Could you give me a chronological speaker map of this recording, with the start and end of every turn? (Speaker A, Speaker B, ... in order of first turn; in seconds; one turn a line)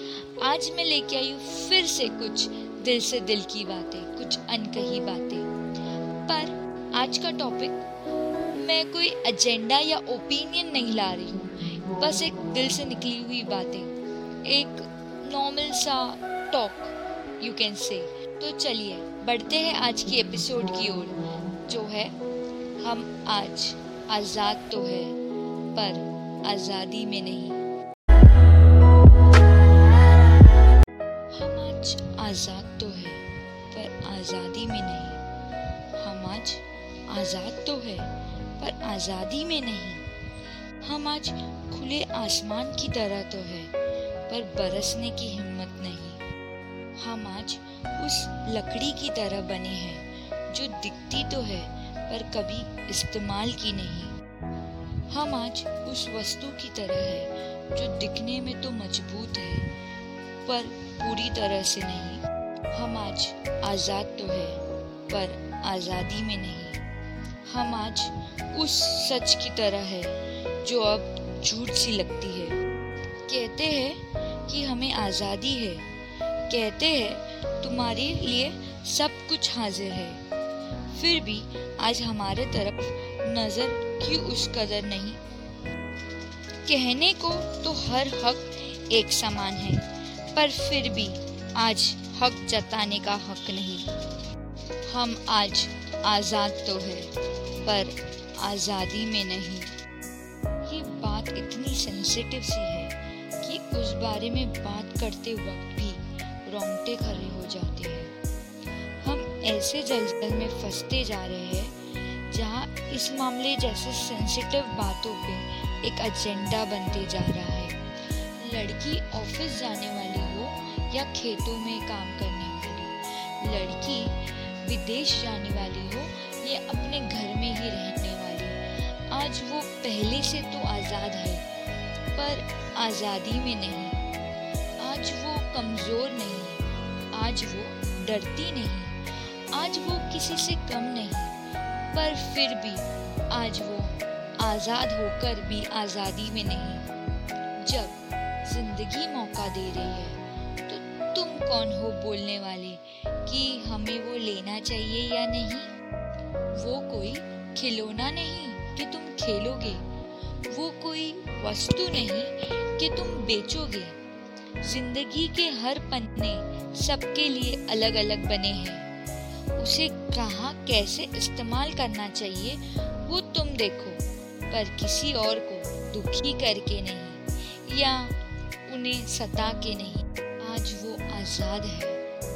Speaker A: 0.4-5.5
Speaker A: 6.3-7.8
Speaker A: 8.6-13.9
Speaker A: 14.4-21.1
Speaker A: 21.7-22.1
Speaker A: 22.8-25.1
Speaker A: 25.7-27.6
Speaker A: 31.3-35.2
Speaker A: 36.0-40.0
Speaker A: 40.8-43.7
Speaker A: 44.3-46.2
Speaker A: 47.0-54.1
Speaker A: 55.1-59.7
Speaker A: 60.5-62.2
Speaker A: 62.7-66.8
Speaker A: 67.5-72.5
Speaker A: 73.3-75.8
Speaker A: 76.5-80.2
Speaker A: 80.9-85.2
Speaker A: 86.7-93.8
Speaker A: 94.9-97.1
Speaker A: 97.6-99.7
Speaker A: 100.7-108.1
Speaker A: 109.0-111.7
Speaker A: 112.3-117.8
Speaker A: 118.4-124.1
Speaker A: 124.6-128.6
Speaker A: 129.1-131.4
Speaker A: 132.2-133.9
Speaker A: 134.8-136.6
Speaker A: 137.1-138.9
Speaker A: 139.5-141.3
Speaker A: 141.9-146.8
Speaker A: 147.6-155.7
Speaker A: 156.6-159.8
Speaker A: 160.5-163.9
Speaker A: 164.6-168.9
Speaker A: 169.6-178.1
Speaker A: 178.7-182.0